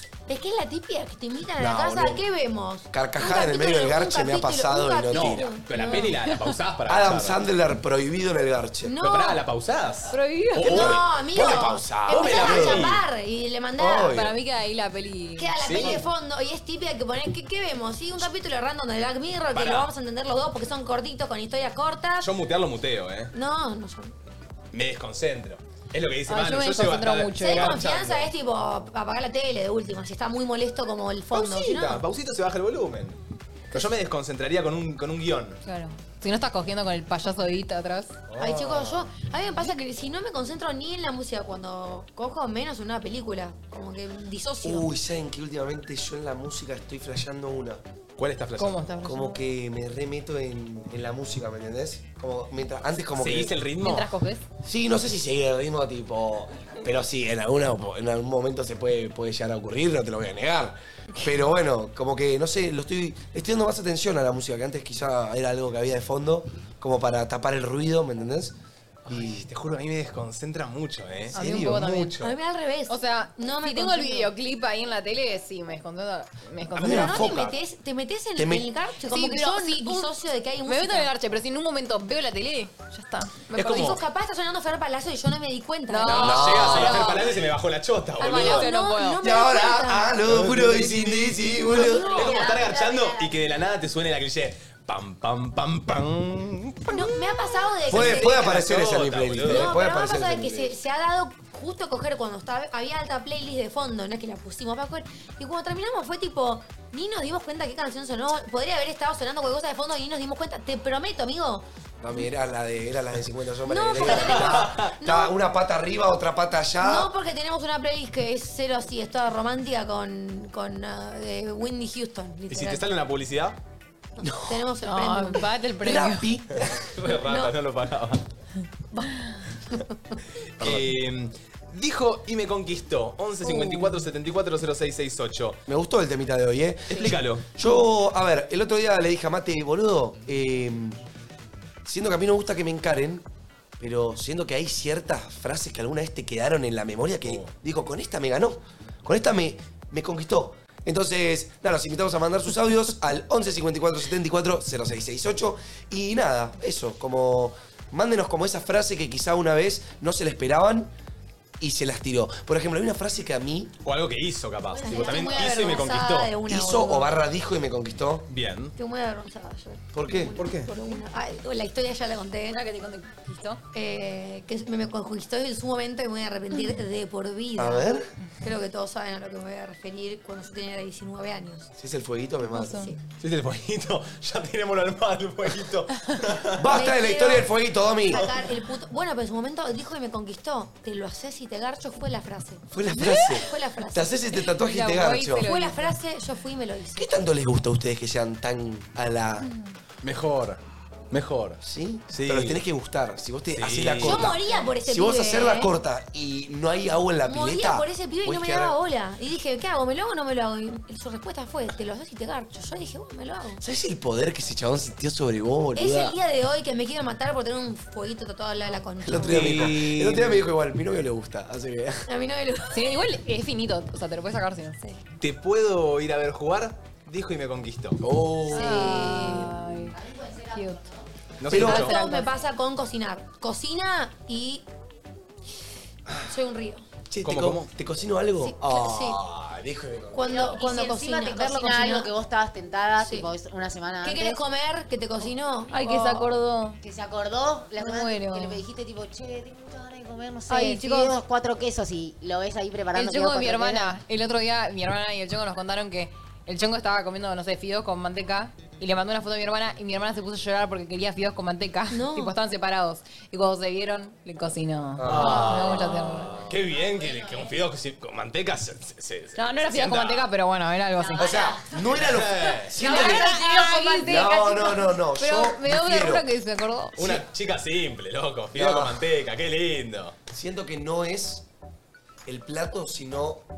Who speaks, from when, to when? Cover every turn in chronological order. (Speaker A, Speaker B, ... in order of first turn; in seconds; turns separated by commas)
Speaker A: 0.3-6.1, Speaker B: 1.6-2.2, Speaker B: 2.9-5.5, Speaker C: 5.1-7.4, Speaker D: 5.7-6.3, Speaker B: 6.9-9.0, Speaker A: 8.8-9.4, Speaker C: 9.0-11.4, Speaker D: 10.1-10.6, Speaker A: 10.6-14.2, Speaker B: 10.6-13.0, Speaker C: 12.1-13.0, Speaker B: 13.8-14.3, Speaker D: 14.1-15.6, Speaker A: 15.4-22.3, Speaker C: 15.6-16.0, Speaker C: 19.5-19.9, Speaker C: 22.2-23.3, Speaker A: 23.3-24.1, Speaker C: 24.7-28.3, Speaker D: 26.3-27.8, Speaker A: 27.4-32.0, Speaker C: 31.3-33.1, Speaker C: 33.7-35.6, Speaker D: 35.6-38.1, Speaker C: 38.3-39.0, Speaker A: 38.4-44.9, Speaker B: 44.6-47.8, Speaker C: 48.2-48.8, Speaker D: 48.6-49.4, Speaker B: 49.0-53.5, Speaker C: 53.1-54.1, Speaker D: 53.8-54.4, Speaker B: 54.6-68.5, Speaker B: 69.0-69.5, Speaker C: 69.0-72.3, Speaker B: 71.3-71.9, Speaker D: 71.3-72.1, Speaker A: 72.2-74.3, Speaker D: 72.9-77.3, Speaker B: 76.7-77.6, Speaker A: 76.8-81.1, Speaker B: 78.3-78.7, Speaker D: 79.1-80.1, Speaker D: 80.6-83.5, Speaker A: 83.5-86.4, Speaker B: 83.5-84.0, Speaker D: 85.9-87.2, Speaker C: 86.1-88.7, Speaker B: 86.1-87.2, Speaker A: 88.2-90.2, Speaker D: 88.2-89.2, Speaker B: 89.2-92.3, Speaker C: 90.2-97.2, Speaker A: 91.7-92.7, Speaker E: 91.9-93.5, Speaker A: 96.9-98.4, Speaker C: 97.8-99.7, Speaker B: 97.8-100.8, Speaker A: 99.4-111.6, Speaker B: 112.0-117.1, Speaker A: 113.7-115.3, Speaker C: 113.9-114.9, Speaker A: 116.8-122.8, Speaker C: 122.5-123.6, Speaker A: 124.2-125.5, Speaker B: 124.2-124.6, Speaker D: 124.8-126.3, Speaker B: 125.8-126.7, Speaker C: 126.9-128.2, Speaker A: 127.3-127.5, Speaker C: 130.6-135.6, Speaker B: 130.6-130.9, Speaker D: 133.4-133.9, Speaker B: 135.7-141.0, Speaker C: 136.9-137.4, Speaker B: 141.8-143.2, Speaker B: 143.8-160.9, Speaker C: 147.2-147.5, Speaker B: 161.6-163.7, Speaker C: 163.8-166.3, Speaker E: 164.8-165.7, Speaker A: 164.8-167.2, Speaker B: 166.4-168.3, Speaker C: 168.3-168.7, Speaker A: 168.8-172.7, Speaker B: 169.9-170.5, Speaker C: 170.3-170.7, Speaker D: 172.5-173.6, Speaker A: 173.7-181.7, Speaker D: 176.5-176.8, Speaker B: 177.6-178.1, Speaker B: 181.8-182.9, Speaker D: 182.4-182.9, Speaker A: 182.7-183.0, Speaker C: 183.2-186.6, Speaker B: 186.5-188.4, Speaker A: 186.7-187.5, Speaker A: 188.0-194.2, Speaker B: 192.7-195.5, Speaker D: 192.9-193.4, Speaker D: 194.6-195.9, Speaker A: 195.4-197.1, Speaker B: 196.9-199.5, Speaker C: 200.0-200.6, Speaker C: 201.1-201.6, Speaker B: 201.6-208.7, Speaker C: 202.1-202.6, Speaker C: 203.5-204.3, Speaker A: 204.0-205.7, Speaker A: 207.2-213.6, Speaker B: 213.6-216.2, Speaker A: 215.8-219.7, Speaker B: 219.0-222.1, Speaker C: 219.2-220.4, Speaker A: 222.1-223.0, Speaker D: 222.7-224.8, Speaker C: 225.2-228.0, Speaker B: 228.0-229.5, Speaker D: 228.5-230.0, Speaker A: 228.5-229.5, Speaker E: 229.8-231.0, Speaker D: 230.5-230.8, Speaker C: 231.4-232.0, Speaker B: 231.5-231.9, Speaker D: 231.5-232.3, Speaker A: 231.5-234.7, Speaker B: 236.1-236.3, Speaker A: 236.2-236.8, Speaker B: 237.1-240.5, Speaker C: 237.2-237.7, Speaker A: 238.4-239.2, Speaker A: 240.1-242.1, Speaker E: 240.2-244.4, Speaker A: 243.0-243.3, Speaker A: 244.0-246.2, Speaker D: 245.7-246.8, Speaker E: 246.8-253.9, Speaker D: 247.8-248.6, Speaker D: 250.5-251.1, Speaker D: 252.9-266.4, Speaker A: 261.9-262.4, Speaker B: 265.0-265.5, Speaker C: 265.0-270.3, Speaker E: 266.6-267.5, Speaker D: 269.4-271.4, Speaker E: 271.0-271.7, Speaker B: 271.1-273.4, Speaker C: 271.9-272.7, Speaker E: 272.8-274.6, Speaker D: 272.8-277.1, Speaker B: 274.0-276.2, Speaker C: 276.9-280.1, Speaker B: 278.5-279.0, Speaker B: 280.3-281.4, Speaker B: 282.2-283.4